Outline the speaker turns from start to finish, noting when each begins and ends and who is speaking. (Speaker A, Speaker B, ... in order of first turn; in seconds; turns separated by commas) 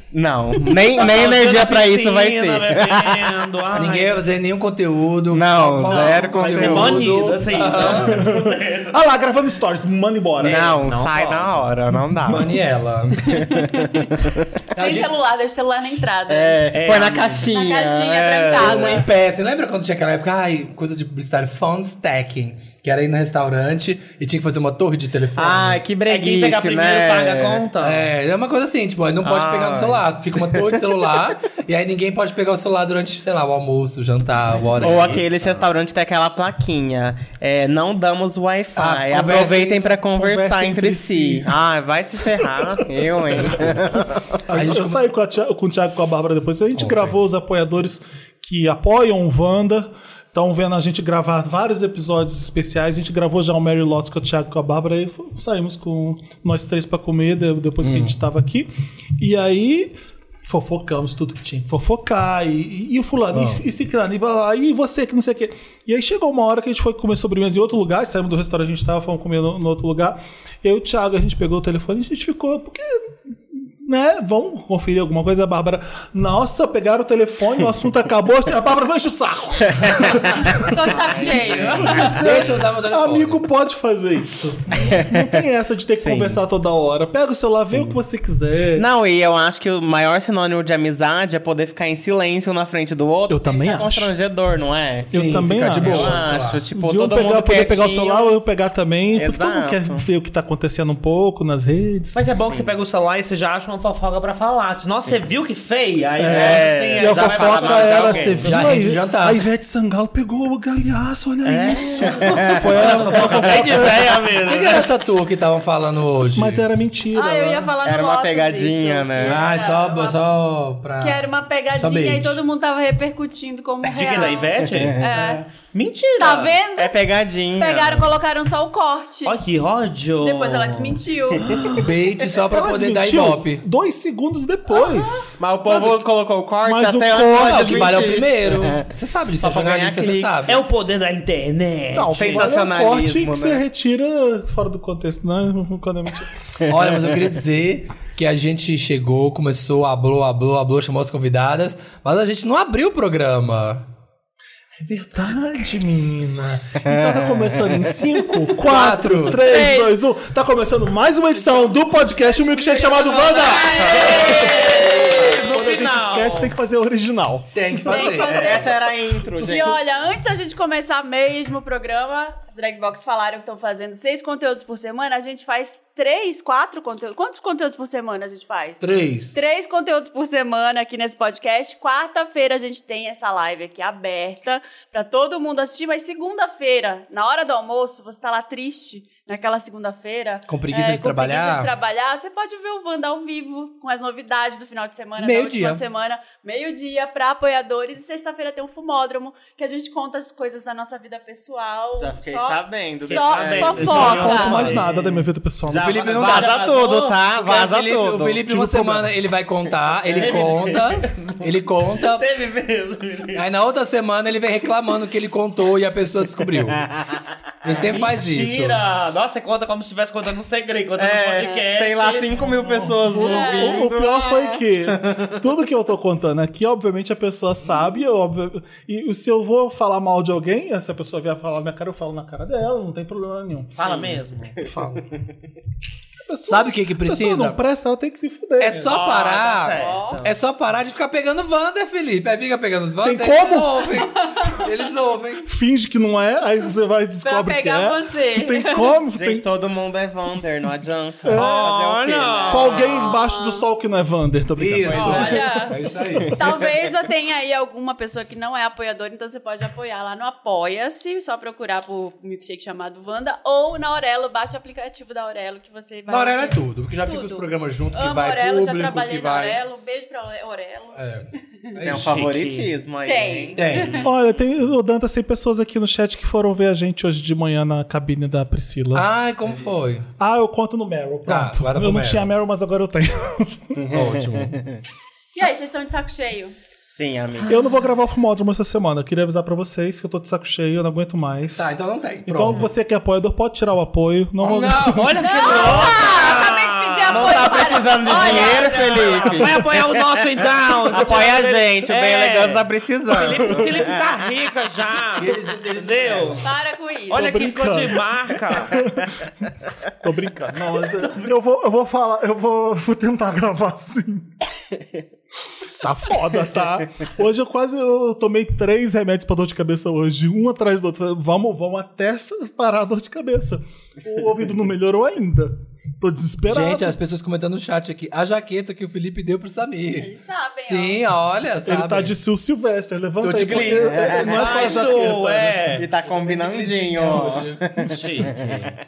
Speaker A: 0.1-3.4, Speaker B: 0.9-4.2, Speaker C: 3.7-8.3, Speaker A: 5.3-7.1, Speaker B: 5.8-8.9, Speaker D: 7.9-10.8, Speaker A: 10.4-12.6, Speaker B: 10.4-11.7, Speaker C: 12.2-13.5, Speaker E: 13.2-16.6, Speaker A: 13.4-14.3, Speaker C: 14.7-15.2, Speaker A: 16.3-19.0, Speaker B: 16.7-17.5, Speaker E: 17.5-19.1, Speaker C: 18.6-25.8, Speaker A: 25.4-27.7, Speaker B: 26.0-28.1, Speaker C: 27.8-35.2, Speaker A: 29.2-31.2, Speaker B: 34.8-35.7, Speaker A: 34.8-44.5, Speaker C: 38.8-40.0, Speaker D: 40.0-41.6, Speaker D: 42.5-42.8, Speaker D: 44.5-80.9, Speaker C: 44.5-45.0, Speaker C: 46.8-47.1, Speaker C: 57.8-58.1, Speaker C: 63.3-63.6, Speaker A: 79.7-82.3, Speaker E: 80.5-82.0, Speaker B: 81.5-81.9, Speaker D: 81.8-88.9, Speaker C: 82.0-83.4, Speaker A: 84.7-85.4, Speaker A: 86.0-86.4, Speaker A: 88.7-98.4, Speaker D: 93.3-94.1, Speaker C: 95.1-96.7, Speaker D: 95.1-102.2, Speaker A: 99.1-100.0, Speaker B: 102.1-108.6, Speaker A: 102.5-102.7, Speaker A: 106.3-108.5, Speaker D: 106.3-114.1, Speaker C: 108.4-109.4, Speaker A: 111.5-113.8, Speaker B: 112.5-114.9, Speaker C: 112.9-113.4, Speaker C: 114.5-116.6, Speaker D: 116.3-117.7, Speaker E: 117.1-120.2, Speaker A: 117.8-119.5, Speaker C: 119.2-122.4, Speaker E: 121.0-125.4, Speaker B: 123.8-125.1, Speaker A: 124.6-125.4, Speaker B: 125.7-126.6, Speaker E: 126.2-127.0, Speaker A: 126.8-128.2, Speaker E: 127.5-129.4, Speaker B: 129.3-131.0, Speaker E: 130.2-131.5, Speaker A: 131.4-131.8, Speaker C: 131.7-133.6, Speaker D: 132.5-135.4, Speaker E: 134.8-135.2, Speaker A: 135.4-140.7, Speaker C: 135.6-136.0, Speaker D: 136.6-138.1, Speaker C: 137.4-140.6, Speaker B: 140.5-142.5, Speaker D: 141.9-146.3, Speaker A: 142.1-143.6, Speaker C: 146.7-153.9, Speaker D: 154.8-164.4, Speaker A: 156.9-157.3, Speaker C: 158.6-159.5, Speaker E: 159.2-159.9, Speaker C: 162.3-165.3, Speaker B: 163.6-166.5, Speaker E: 164.0-165.1, Speaker D: 165.3-167.6, Speaker C: 167.5-168.7, Speaker E: 167.8-168.8, Speaker A: 168.0-169.8, Speaker E: 169.4-204.6, Speaker C: 178.8-179.4, Speaker C: 190.5-191.7, Speaker C: 195.2-195.8, Speaker A: 202.0-204.6, Speaker B: 203.0-205.1, Speaker D: 203.8-205.9, Speaker C: 204.4-204.8, Speaker A: 205.7-209.0, Speaker C: 205.7-212.3, Speaker B: 206.2-207.2, Speaker A: 210.1-210.5, Speaker B: 210.1-211.4, Speaker B: 212.0-213.4, Speaker C: 213.3-216.9, Speaker C: 217.6-218.8, Speaker B: 217.8-223.0, Speaker A: 221.0-225.4, Speaker D: 222.8-233.7, Speaker E: 223.2-223.8, Speaker A: 233.8-234.9, Speaker B: 233.8-234.5, Speaker C: 234.6-235.1, Speaker D: 236.3-239.0, Speaker C: 236.5-237.6, Speaker C: 238.6-245.5, Speaker B: 238.9-240.1, Speaker E: 239.7-240.2, Speaker A: 240.1-240.3, Speaker D: 243.0-243.9, Speaker E: 244.0-244.7, Speaker D: 245.5-249.4, Speaker E: 247.2-248.9, Speaker A: 249.1-252.8, Speaker D: 251.2-251.8, Speaker B: 251.3-253.1, Speaker D: 252.5-255.7, Speaker E: 252.7-253.7, Speaker C: 254.6-256.5, Speaker E: 254.9-271.7, Speaker C: 266.1-269.6, Speaker C: 270.9-272.2, Speaker A: 271.8-274.1, Speaker B: 271.9-272.7, Speaker E: 273.1-274.0, Speaker C: 273.6-274.1, Speaker D: 274.0-279.1, Speaker C: 278.9-280.1, Speaker D: 280.2-283.8, Speaker C: 281.3-282.3, Speaker A: 283.8-284.8, Speaker C: 283.9-284.6, Speaker E: 285.4-286.6, Speaker A: 286.9-287.6, Speaker D: 287.4-291.7, Speaker C: 291.6-292.7, Speaker D: 292.3-295.2, Speaker C: 294.4-296.4, Speaker B: 295.0-306.4, Speaker E: 295.2-299.2, Speaker A: 295.5-295.8, Speaker A: 297.1-300.2, Speaker A: 300.8-304.0, Speaker C: 305.2-306.5, Speaker E: 306.4-307.2, Speaker B: 307.1-308.8, Speaker D: 307.1-314.3, Speaker D: 315.8-327.0, Speaker C: 326.5-332.1, Speaker E: 329.9-331.0, Speaker D: 331.6-335.7, Speaker C: 333.2-334.6, Speaker A: 333.8-334.9, Speaker B: 334.3-335.9, Speaker A: 335.7-338.7, Speaker C: 336.1-337.7, Speaker B: 337.8-338.7